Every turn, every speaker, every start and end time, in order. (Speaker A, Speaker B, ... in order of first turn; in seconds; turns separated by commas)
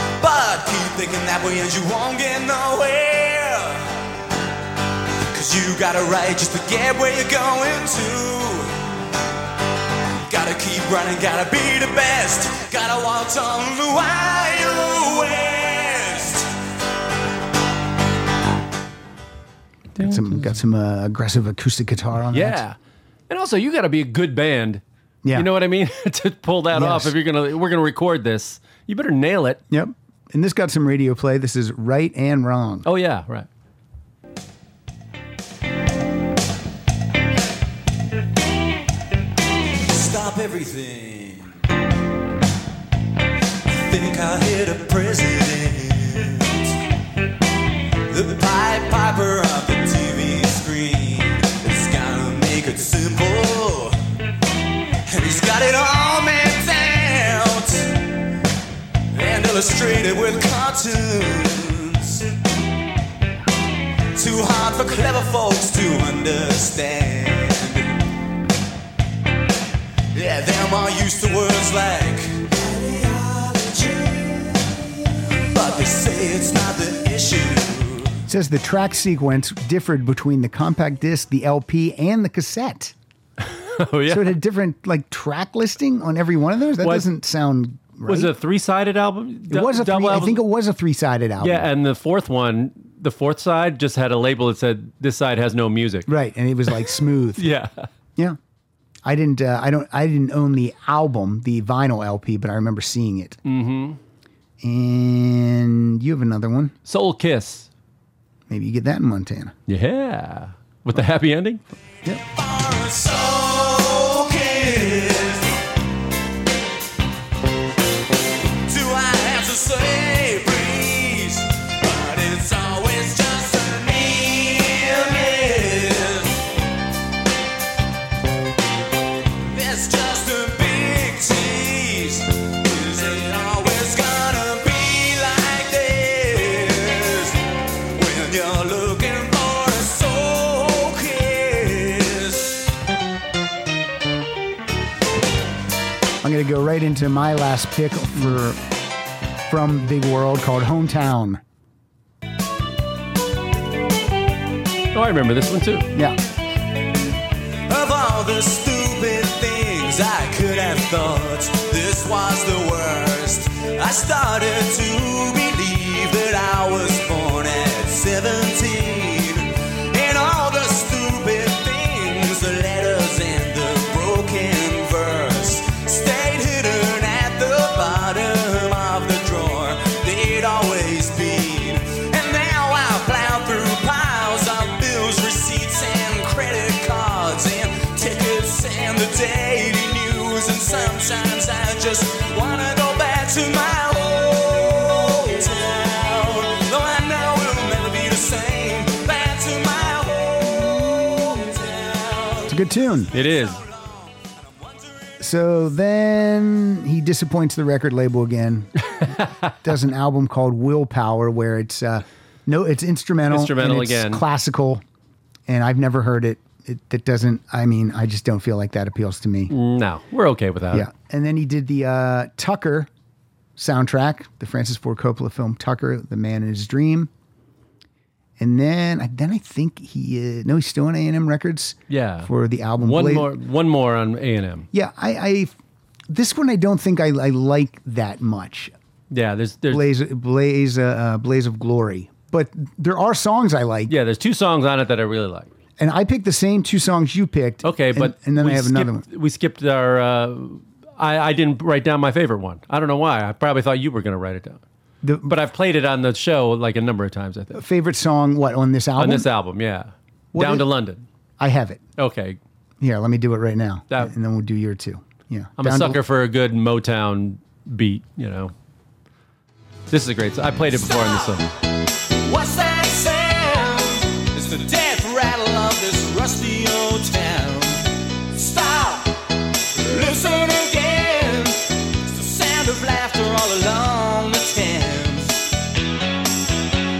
Speaker A: 0.2-4.0, Speaker A: 5.3-8.7, Speaker A: 10.3-16.5, Speaker B: 20.0-20.4, Speaker C: 20.0-22.6, Speaker B: 22.3-22.8, Speaker B: 23.3-24.8, Speaker B: 25.3-29.6, Speaker C: 26.7-27.2, Speaker C: 29.7-32.9, Speaker B: 32.9-33.5, Speaker A: 39.9-41.6, Speaker A: 43.7-46.8, Speaker A: 48.1-54.0, Speaker A: 55.1-58.0, Speaker A: 59.1-62.3, Speaker A: 64.2-68.0, Speaker A: 70.1-74.8, Speaker A: 75.5-78.2, Speaker C: 78.3-82.9, Speaker B: 83.5-84.4, Speaker C: 84.1-88.3, Speaker B: 86.8-87.1, Speaker B: 88.1-90.4, Speaker C: 89.5-91.7, Speaker B: 91.4-96.1, Speaker C: 96.1-97.5, Speaker B: 96.8-97.9, Speaker C: 99.0-103.4, Speaker B: 103.5-104.0, Speaker C: 104.6-106.7, Speaker B: 106.9-107.7, Speaker C: 108.5-109.5, Speaker B: 109.7-111.6, Speaker A: 112.3-115.5, Speaker A: 118.7-126.5, Speaker A: 129.5-137.4, Speaker A: 137.9-142.7, Speaker C: 146.2-148.6, Speaker C: 149.5-151.4, Speaker B: 154.9-155.9, Speaker A: 157.7-202.6, Speaker C: 202.5-203.1, Speaker B: 203.1-203.6, Speaker A: 203.1-204.9, Speaker C: 205.2-214.8, Speaker B: 209.1-209.5, Speaker B: 213.3-214.2, Speaker C: 215.5-219.5, Speaker B: 219.5-220.9, Speaker C: 220.7-222.9, Speaker C: 223.6-227.1, Speaker C: 228.4-233.3, Speaker B: 231.9-234.7, Speaker C: 234.7-235.5, Speaker C: 236.1-238.7, Speaker B: 239.1-239.8, Speaker C: 239.7-243.9, Speaker B: 243.9-245.5, Speaker C: 245.8-249.1, Speaker B: 247.6-254.6, Speaker C: 255.0-255.3, Speaker B: 255.2-257.6, Speaker C: 257.5-259.3, Speaker B: 259.0-261.0, Speaker C: 260.3-260.7, Speaker C: 261.4-261.8, Speaker B: 262.0-262.4, Speaker C: 262.8-266.0, Speaker B: 265.6-268.5, Speaker B: 269.9-271.5, Speaker A: 272.2-279.1, Speaker A: 279.8-285.4